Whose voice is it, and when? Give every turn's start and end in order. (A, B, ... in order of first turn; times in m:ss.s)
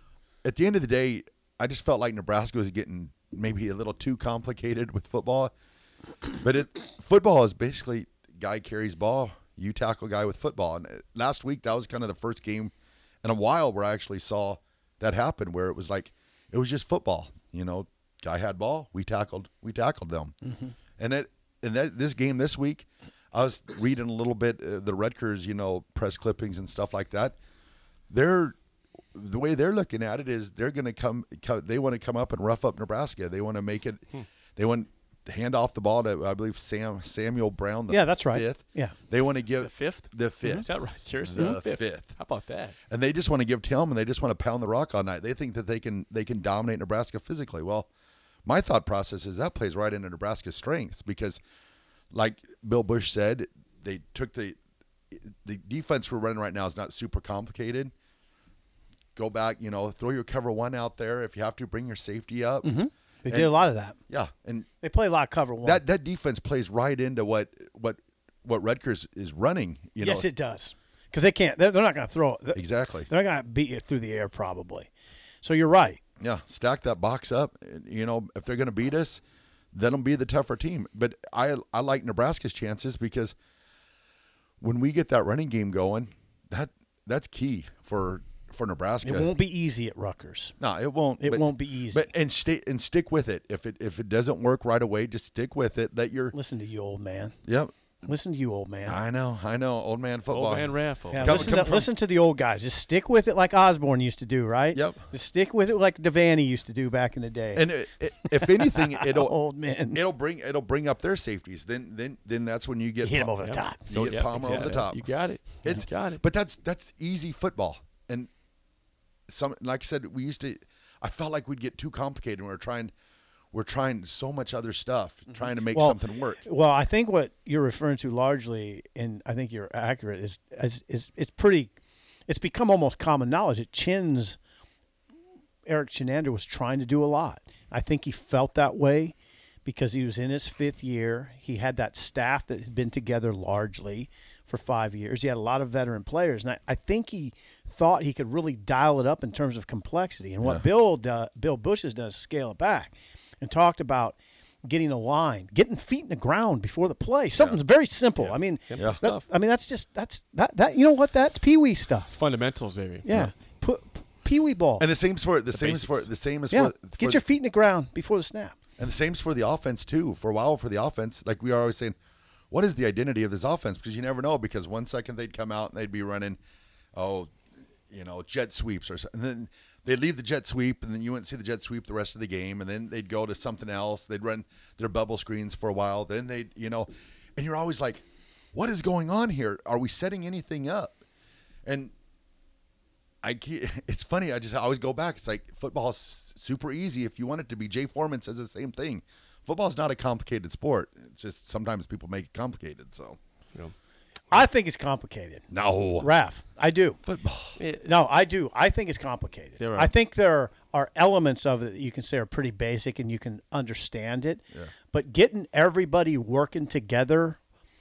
0:00.4-0:05.5 A
0:06.4-0:12.7 A
0:13.2-0:20.3 A
0:20.5-0:20.7 B
0:21.0-0:27.4 A
0:28.1-0:28.6 A
0:29.1-0:34.0 A
0:34.6-0:40.7 A
0:37.9-0:39.0 B
0:39.6-0:42.8 C
0:41.2-0:42.2 A
0:42.9-0:47.9 A
0:48.5-0:51.4 A
0:52.1-0:54.6 A
0:55.1-0:57.9 A
0:59.2-1:02.7 A
1:02.6-1:04.0 B
1:03.3-1:04.7 A
1:04.8-1:05.8 B
1:05.6-1:10.3 A
1:10.0-1:14.9 B
1:12.6-1:13.1 A
1:15.4-1:16.0 B
1:16.2-1:19.2 A
1:19.7-1:23.3 A
1:24.6-1:29.3 A
1:29.0-1:30.6 B
1:30.6-1:36.4 A
1:31.2-1:32.1 B
1:36.3-1:37.4 B
1:37.5-1:37.7 A
1:38.0-1:39.0 B
1:38.9-1:41.9 A
1:40.3-1:41.6 C
1:41.1-1:50.0 B
1:44.7-1:45.0 A
1:47.6-1:49.4 A
1:49.9-1:55.1 A
1:53.0-1:53.8 B
1:53.4-1:56.2 C
1:55.6-1:58.3 A
1:59.3-2:02.9 A
2:03.5-2:06.4 A
2:05.4-2:11.7 B
2:12.3-2:14.4 B
2:15.7-2:42.2 B
2:38.2-2:39.2 C
2:42.1-2:43.1 C
2:43.0-2:44.9 B
2:44.8-2:47.2 A
2:45.5-2:46.1 C
2:46.5-2:48.6 B
2:48.8-2:52.0 A
2:52.5-2:56.4 A
2:57.0-2:57.3 A
2:57.9-3:11.0 A
3:11.7-3:11.9 A
3:13.2-3:23.2 A
3:24.3-3:25.5 B
3:25.5-3:26.1 A
3:26.0-3:27.0 B
3:27.0-3:27.6 A
3:27.6-3:27.9 C
3:27.8-3:37.4 B
3:29.6-3:29.9 C